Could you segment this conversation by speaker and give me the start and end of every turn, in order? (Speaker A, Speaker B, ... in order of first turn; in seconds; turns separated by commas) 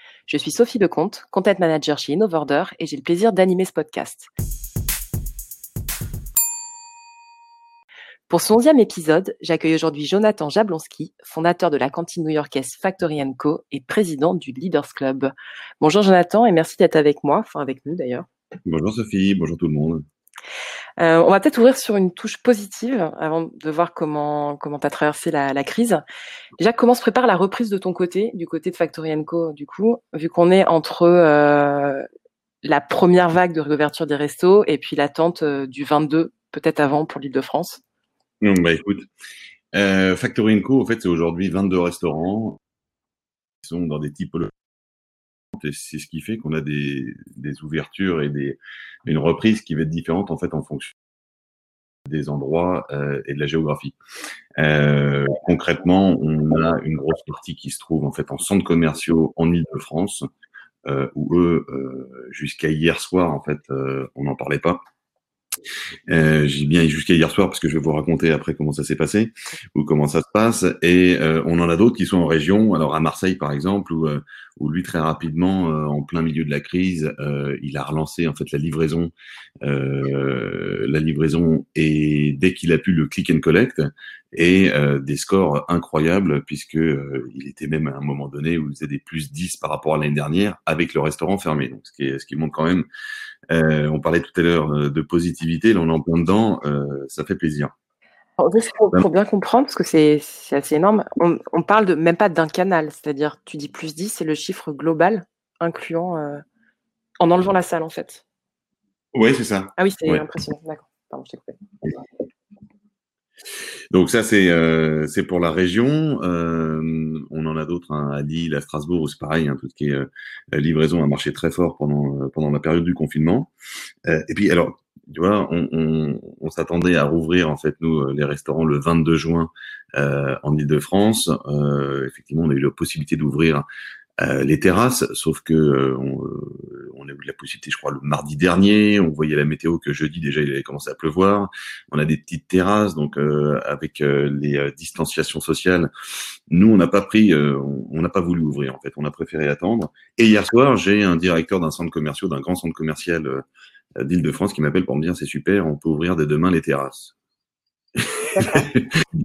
Speaker A: 0.3-4.3, Speaker A: 8.3-18.3, Speaker B: 18.6-20.0, Speaker A: 21.0-26.0, Speaker A: 26.6-32.0, Speaker A: 32.6-37.8, Speaker B: 38.4-39.1, Speaker B: 39.7-42.6, Speaker B: 43.6-44.5, Speaker B: 45.5-51.0, Speaker B: 52.0-54.0, Speaker B: 54.6-60.3, Speaker B: 60.9-64.8, Speaker B: 66.1-92.8, Speaker B: 93.5-97.7, Speaker A: 98.4-106.4, Speaker A: 107.2-108.2, Speaker B: 109.1-110.2, Speaker A: 109.8-111.6, Speaker B: 113.9-123.5, Speaker B: 124.1-133.6, Speaker B: 134.2-145.9, Speaker B: 146.5-153.4, Speaker B: 154.0-157.1, Speaker B: 157.9-158.9, Speaker A: 158.3-158.7